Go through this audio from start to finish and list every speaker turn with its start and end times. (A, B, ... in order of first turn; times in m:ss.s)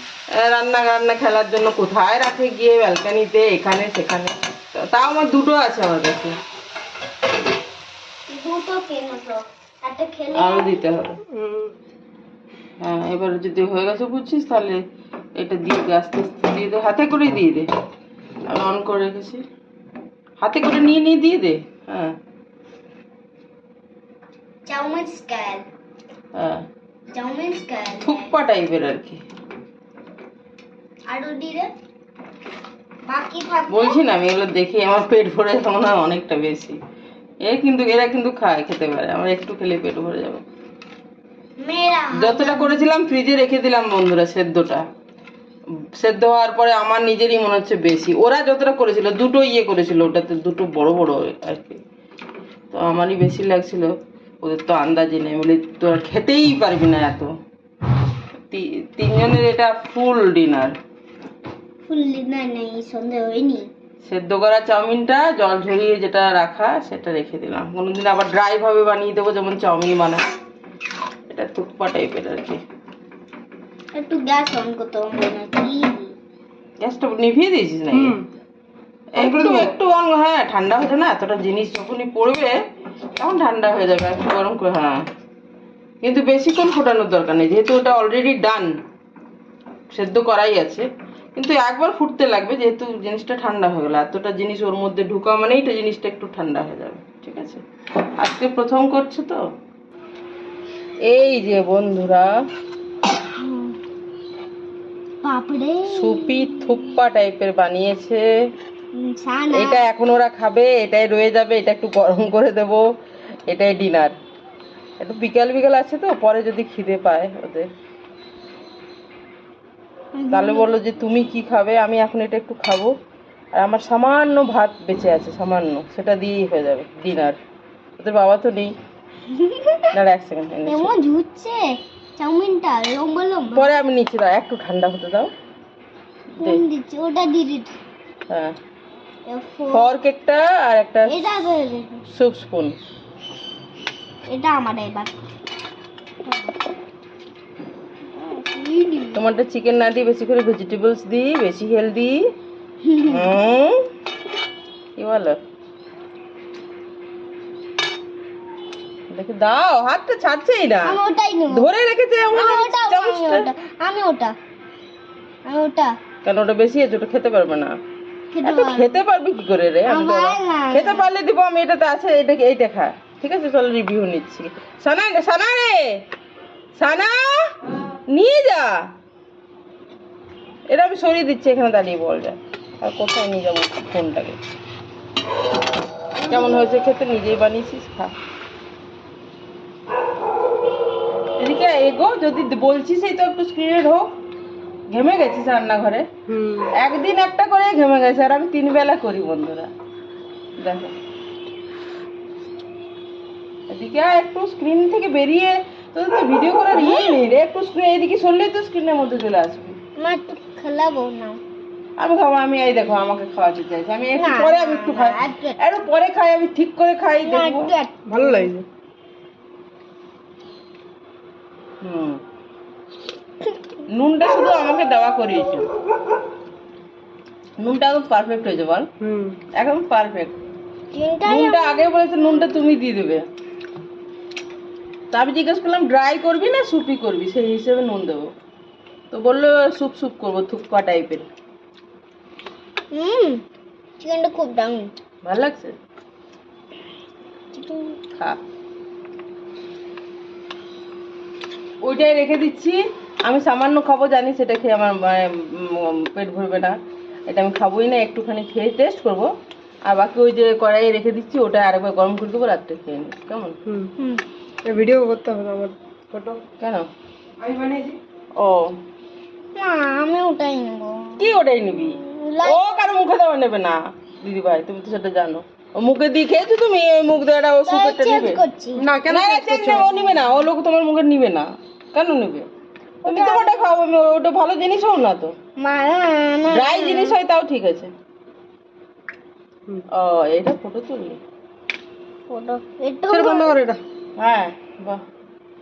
0:00.4-0:06.4 A
0:08.3-0:10.8 B
0:10.4-0:11.2 A
0:12.8-0:14.8 A
0:15.4-0:17.7 A
0:18.5-0:19.4 A
0:20.4-0:22.2 A
0:24.7-0:25.7 B
0:26.4-0:26.6 A
0:27.1-0:28.3 B
0:28.0-0:29.2 A
0:31.1-0:31.7 B
0:33.0-0:34.0 B
0:33.7-0:36.8 A
0:37.4-0:40.4 A
0:41.6-0:42.8 B
0:42.1-0:44.8 A
0:46.0-0:51.8 A
0:52.7-0:57.3 A
0:58.5-1:00.8 A
1:01.9-1:03.7 B
1:04.0-1:10.2 A
1:11.3-1:12.6 A
1:13.9-1:16.1 B
1:16.8-1:18.2 A
1:17.9-1:18.3 C
1:19.2-1:22.6 A
1:19.2-1:19.7 C
1:23.2-1:25.0 A
1:26.0-1:28.7 A
1:29.9-1:37.6 A
1:38.2-1:39.4 A
1:41.1-1:42.3 A
1:43.4-1:43.8 B
1:45.2-1:46.9 B
1:45.9-1:48.3 A
1:49.0-1:49.8 B
1:49.5-1:52.8 A
1:53.5-1:54.2 A
1:55.0-1:57.7 A
2:00.2-2:00.7 B
2:00.3-2:02.9 A
2:03.5-2:07.4 A
2:08.0-2:08.7 A
2:09.3-2:09.9 B
2:09.9-2:10.9 A
2:10.7-2:13.6 B
2:13.5-2:15.3 A
2:16.4-2:17.8 B
2:18.3-2:18.6 A
2:19.3-2:19.9 B
2:19.7-2:21.1 A
2:21.1-2:22.0 B
2:22.1-2:22.8 A
2:24.3-2:25.1 B
2:26.2-2:26.6 B
2:28.1-2:29.2 B
2:29.2-2:32.2 A
2:32.8-2:33.3 B
2:33.0-2:33.8 A
2:35.0-2:35.4 A
2:39.1-2:41.0 A
2:40.8-2:41.7 B
2:41.5-2:43.5 A
2:42.3-2:44.4 B
2:45.5-2:46.0 B
2:46.2-2:47.8 A
2:48.3-2:49.0 B
2:48.4-2:56.0 A
2:49.9-2:51.1 B
2:56.8-2:57.6 A
2:58.1-2:58.8 A
3:00.7-3:04.4 A
3:06.2-3:06.7 B
3:06.2-3:08.1 A
3:11.4-3:14.1 A
3:14.9-3:16.1 A
3:16.3-3:16.6 C
3:16.6-3:19.7 A
3:20.6-3:20.9 A
3:23.7-3:29.8 A
3:26.7-3:27.2 B
3:30.0-3:31.4 B
3:32.0-3:37.7 A
3:34.2-3:35.6 B
3:37.2-3:38.6 B
3:38.2-3:38.6 C
3:41.8-3:42.2 A
3:43.9-3:45.7 A
3:47.6-3:48.9 A
3:49.0-3:49.4 C
3:49.5-3:50.4 A
3:50.9-3:52.0 B
3:51.3-3:53.2 A
3:55.1-3:58.3 A
3:59.1-4:01.3 A
4:02.9-4:03.4 B
4:04.0-4:04.9 B
4:05.2-4:05.7 A
4:07.5-4:08.0 B
4:08.2-4:08.4 A
4:11.8-4:16.8 A
4:17.3-4:19.3 A
4:19.8-4:23.6 A
4:24.0-4:24.2 B
4:24.6-4:26.4 C
4:26.6-4:26.9 A
4:27.4-4:28.0 C
4:28.4-4:28.8 A
4:29.6-4:32.9 B
4:31.2-4:38.4 A
4:37.7-4:38.9 B
4:38.8-4:39.9 C
4:39.1-4:42.5 A
4:43.0-4:43.6 B
4:43.1-4:45.3 A
4:45.6-4:47.2 B
4:46.5-4:47.9 A
4:49.9-4:51.2 A
4:52.3-4:53.6 B
4:53.1-4:53.6 C
4:54.2-4:55.0 A